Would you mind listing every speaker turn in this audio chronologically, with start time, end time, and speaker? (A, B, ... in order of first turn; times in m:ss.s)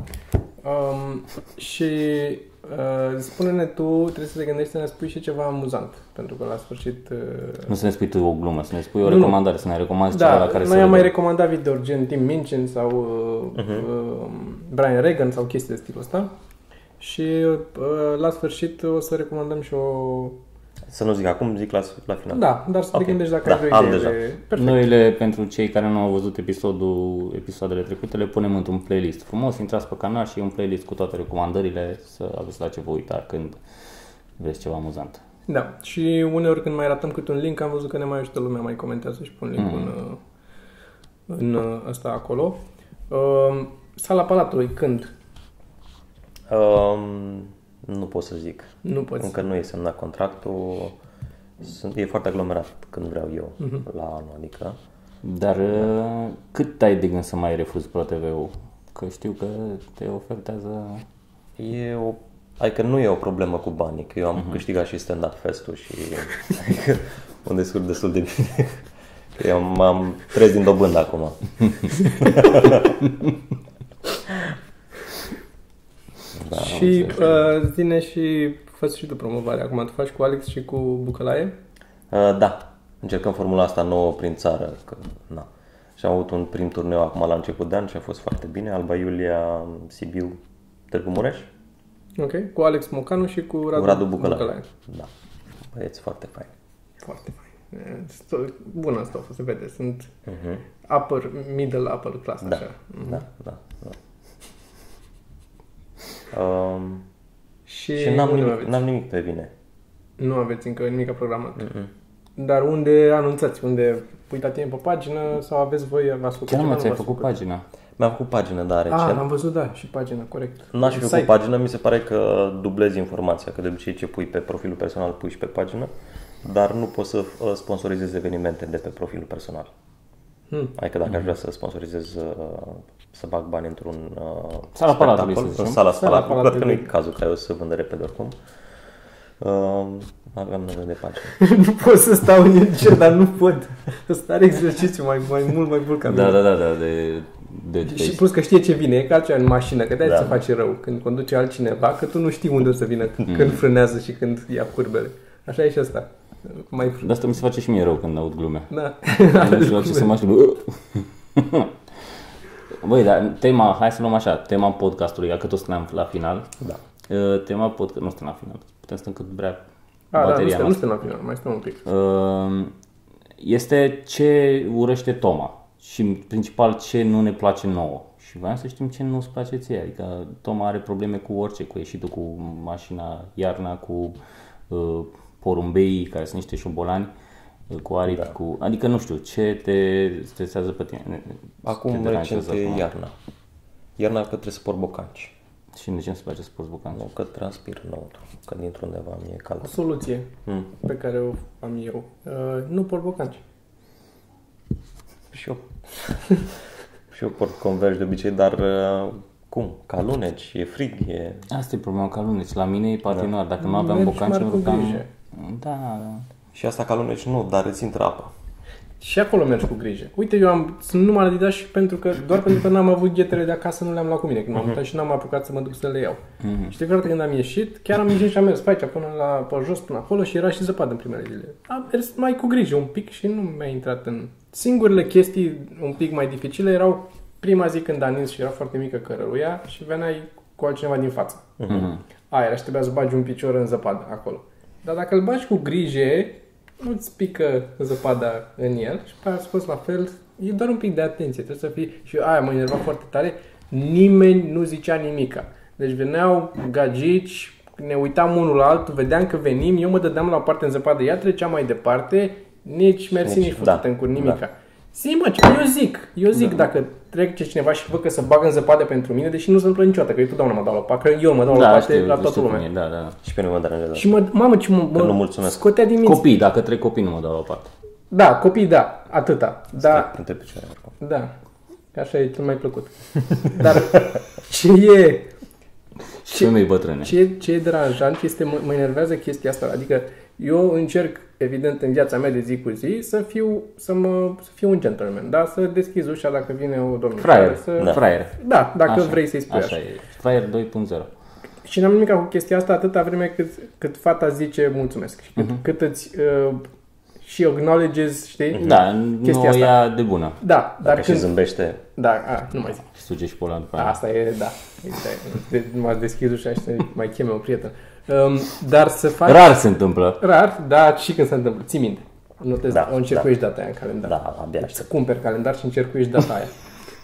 0:00.6-0:07.7 A
0:07.7-0:11.1 B
0:09.0-0:09.4 A
0:10.1-0:16.3 A
0:13.6-0:13.8 C
0:17.0-0:20.4 A
0:20.9-0:24.2 C
0:22.3-0:24.8 A
0:24.6-0:33.6 B
0:34.4-0:35.2 B
0:35.5-0:40.2 A
0:39.6-0:39.9 B
0:41.3-0:45.1 A
0:46.5-0:51.0 C
0:48.8-0:49.4 A
0:51.6-0:54.8 C
0:55.2-1:01.0 B
1:01.6-1:08.8 C
1:09.4-1:13.0 C
1:16.4-1:17.2 C
1:16.5-1:21.5 A
1:16.6-1:17.1 B
1:22.1-1:30.4 C
1:30.9-1:31.5 C
1:32.2-1:34.7 A
1:33.7-1:35.1 C
1:35.7-1:36.5 C
1:37.0-1:40.1 A
1:40.3-1:40.6 C
1:40.9-1:43.2 A
1:42.4-1:44.0 C
1:46.3-1:47.1 C
1:47.7-1:48.8 A
1:48.0-1:49.5 C
1:50.2-1:51.7 A
1:51.6-1:51.9 C
1:52.4-1:57.3 A
1:56.5-1:57.6 B
1:58.0-1:59.3 C
1:58.9-2:01.3 A
2:00.7-2:05.9 C
2:06.4-2:09.7 C
2:10.5-2:10.8 A
2:10.8-2:18.4 C
2:14.8-2:15.8 B
2:15.9-2:16.9 A
2:19.4-2:21.4 C
2:21.3-2:26.4 A
2:26.1-2:28.2 B
2:27.9-2:37.1 A
2:30.0-2:30.3 C
2:33.3-2:33.6 B
2:37.0-2:38.7 B
2:38.7-2:40.1 A
2:39.3-2:41.7 B
2:42.8-2:46.5 B
2:47.1-2:49.6 B
2:50.1-2:51.8 A
2:50.2-2:50.8 B
2:51.8-2:52.7 B
2:53.4-3:04.2 B
3:04.7-3:07.1 B
3:07.7-3:12.9 B
3:11.6-3:13.1 C
3:14.0-3:15.3 C
3:15.8-3:17.0 B
3:16.9-3:19.7 C
3:19.6-3:23.4 A
3:25.3-3:26.3 C
3:27.1-3:31.4 C
3:31.5-3:36.3 B
3:33.6-3:35.1 A
3:36.5-3:38.3 C
3:39.0-4:32.6 A
3:46.4-3:46.7 B
4:01.6-4:01.9 C
4:23.2-4:24.4 C
4:31.5-4:33.2 B
4:33.2-4:34.2 C
4:34.0-4:36.3 A
4:34.9-4:35.6 C
4:36.0-4:37.7 B
4:38.1-4:40.1 A
4:39.8-4:40.9 C
4:41.0-4:41.3 A
4:41.9-4:45.3 A
4:46.2-4:47.1 B
4:46.3-4:59.8 A
4:57.2-5:01.1 B
5:01.6-5:06.6 A
5:07.2-5:09.8 A
5:08.6-5:10.4 B
5:10.4-5:11.3 A
5:10.8-5:11.8 C
5:12.0-5:12.8 A
5:12.9-5:14.0 B
5:13.8-5:19.6 A
5:19.3-5:20.2 B
5:20.2-5:26.5 A
5:22.7-5:23.3 C
5:24.0-5:24.9 C